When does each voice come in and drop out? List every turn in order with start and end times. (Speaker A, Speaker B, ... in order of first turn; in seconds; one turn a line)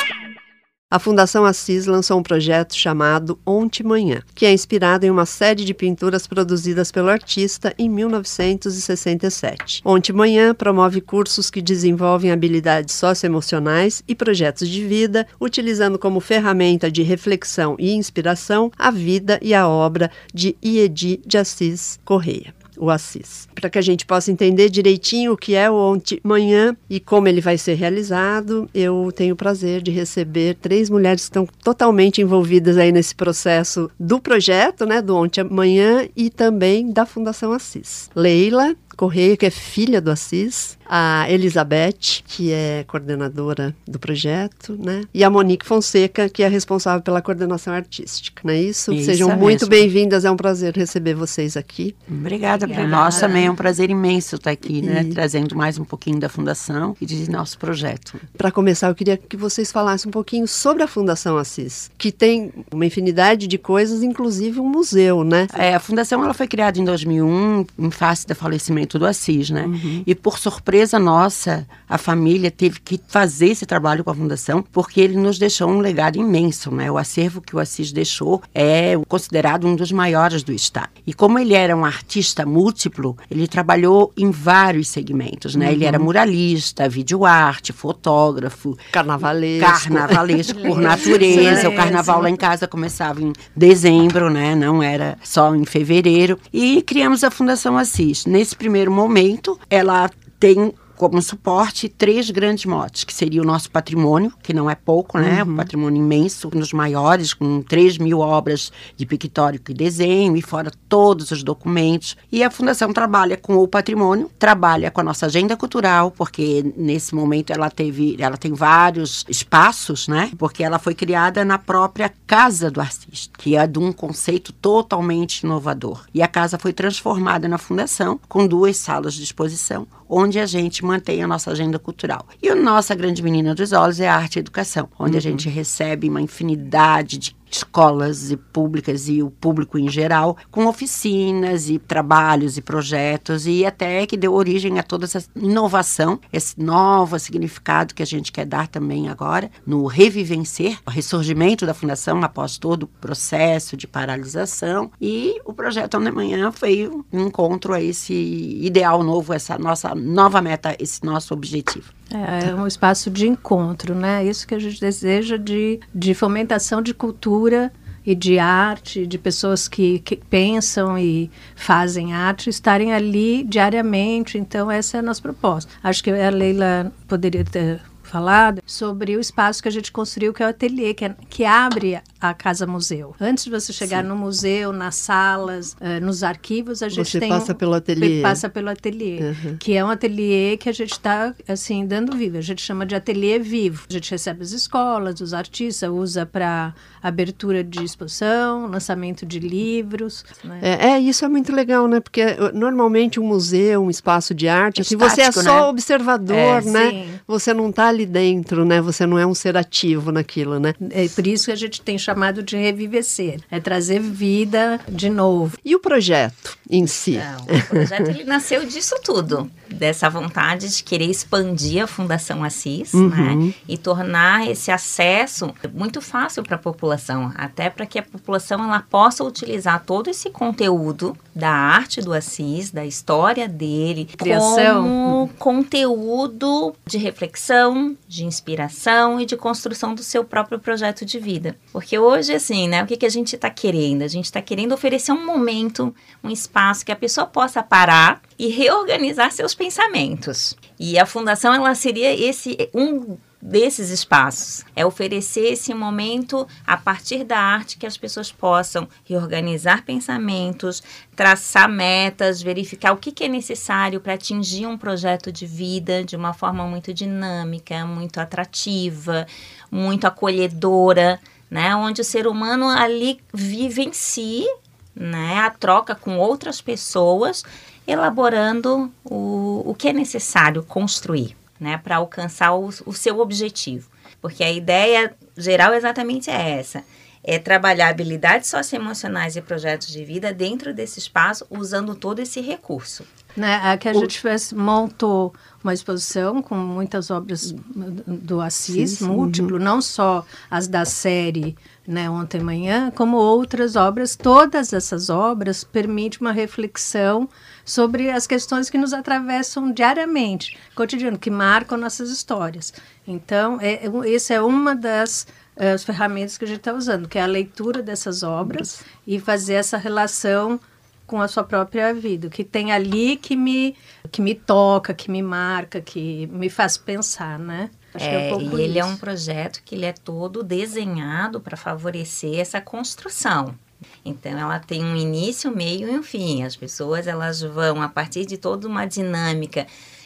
Speaker A: 0.9-52.0
Speaker B: 48.9-49.9
Speaker B: 52.1-58.3
Speaker C: 52.6-53.5
Speaker A: 54.8-55.2
Speaker A: 58.4-65.5
Speaker B: 65.5-88.8
Speaker A: 69.7-70.1
Speaker A: 85.6-86.1
Speaker A: 88.9-91.8
Speaker B: 89.6-161.9
Speaker D: 90.5-92.3
Speaker A: 105.2-105.7
Speaker A: 135.1-135.4
Speaker D: 162.1-200.7
Speaker A: 186.9-188.4
Speaker A: 189.2-189.6
Speaker A: 200.6-210.8
Speaker B: 204.8-205.7
Speaker D: 206.3-207.2
Speaker D: 210.8-215.6
Speaker A: 215.6-218.1
Speaker C: 217.1-293.1
Speaker A: 222.9-223.5
Speaker D: 234.2-235.2
Speaker D: 293.4-329.0
Speaker A: 298.7-299.5
Speaker C: 328.0-339.7